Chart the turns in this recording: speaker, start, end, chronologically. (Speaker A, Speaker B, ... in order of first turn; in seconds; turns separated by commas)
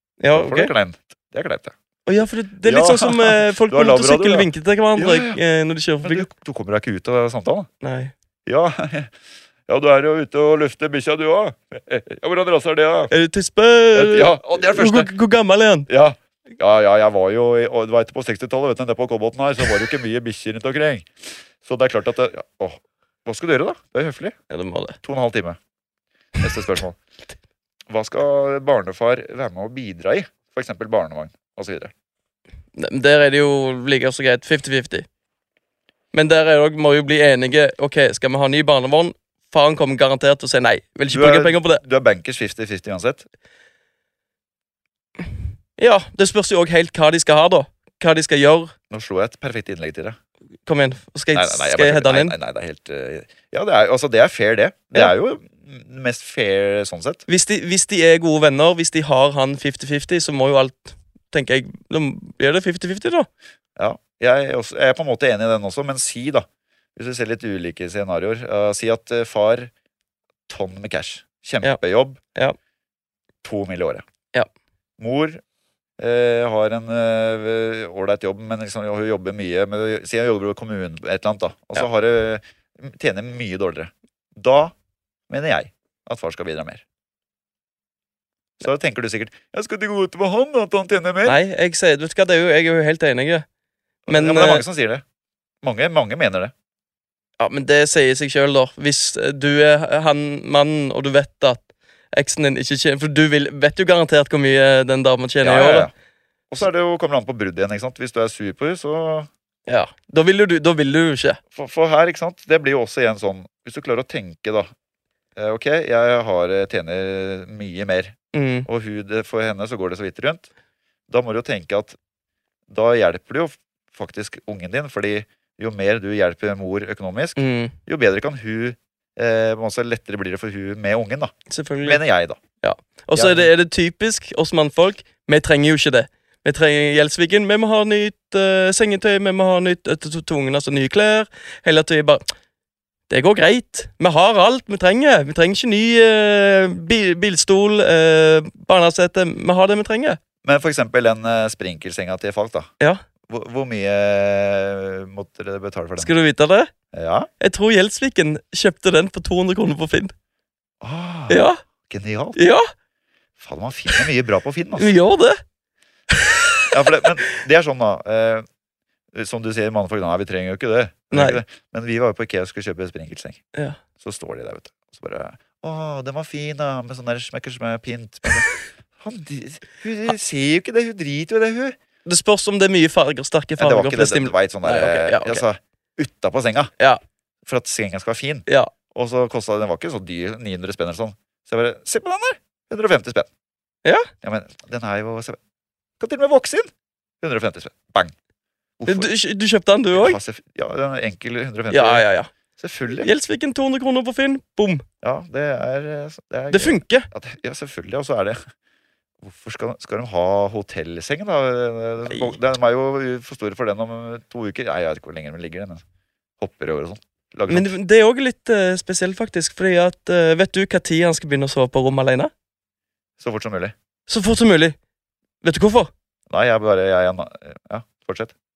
Speaker A: 0.2-0.7, Speaker B: 0.3-1.7, Speaker A: 2.1-6.3, Speaker B: 2.6-5.4, Speaker B: 6.0-7.7, Speaker A: 7.8-8.1, Speaker B: 8.5-9.1, Speaker B: 9.7-13.1, Speaker A: 13.1-15.9, Speaker B: 13.9-15.1, Speaker B: 15.9-24.4, Speaker A: 24.5-25.0, Speaker B: 25.0-25.6, Speaker B: 26.4-27.0, Speaker B: 27.9-31.9, Speaker A: 32.8-35.1, Speaker A: 36.1-41.8, Speaker B: 41.1-43.2, Speaker A: 45.8-48.7, Speaker B: 48.9-50.2, Speaker A: 50.7-52.4, Speaker B: 51.3-57.2, Speaker A: 57.3-63.3, Speaker B: 63.8-69.7, Speaker B: 70.5-72.2, Speaker B: 73.4-74.0, Speaker B: 75.0-75.4, Speaker B: 76.0-84.7, Speaker B: 85.3-86.8, Speaker B: 88.6-91.4, Speaker A: 91.2-93.5, Speaker B: 94.1-95.0, Speaker A: 94.1-94.6, Speaker B: 95.6-96.5, Speaker A: 97.4-105.9, Speaker B: 105.4-105.9, Speaker B: 106.5-109.3, Speaker A: 109.7-111.4, Speaker B: 111.5-114.7, Speaker B: 115.4-120.5, Speaker A: 118.3-118.7, Speaker B: 121.1-122.0, Speaker B: 122.7-132.4, Speaker A: 127.4-127.8, Speaker A: 131.5-132.0, Speaker A: 132.6-142.3, Speaker B: 133.1-133.5, Speaker A: 143.1-150.2, Speaker B: 150.4-152.7, Speaker B: 153.3-156.1, Speaker A: 156.0-156.7, Speaker B: 156.9-157.3, Speaker A: 157.4-160.1, Speaker B: 160.8-162.4, Speaker A: 161.3-161.6, Speaker A: 162.4-162.7, Speaker B: 163.4-165.0, Speaker A: 164.8-165.4, Speaker A: 166.1-167.2, Speaker B: 166.7-168.4, Speaker B: 169.1-173.4, Speaker A: 171.1-171.4, Speaker B: 174.0-181.8, Speaker A: 182.1-185.4, Speaker B: 183.6-186.7, Speaker B: 187.5-193.3, Speaker A: 193.8-194.1, Speaker B: 194.2-195.4, Speaker B: 196.0-196.7, Speaker B: 197.2-198.1, Speaker B: 198.8-199.1, Speaker A: 198.9-200.2, Speaker B: 199.9-202.1, Speaker A: 201.7-202.3, Speaker B: 202.6-203.1, Speaker A: 203.0-204.8, Speaker B: 205.0-208.4, Speaker A: 206.5-207.1, Speaker B: 209.2-215.8, Speaker A: 212.1-212.3, Speaker B: 216.4-217.7, Speaker A: 217.5-222.3, Speaker B: 223.2-223.7, Speaker A: 224.1-224.8, Speaker A: 225.4-225.9, Speaker B: 226.3-228.3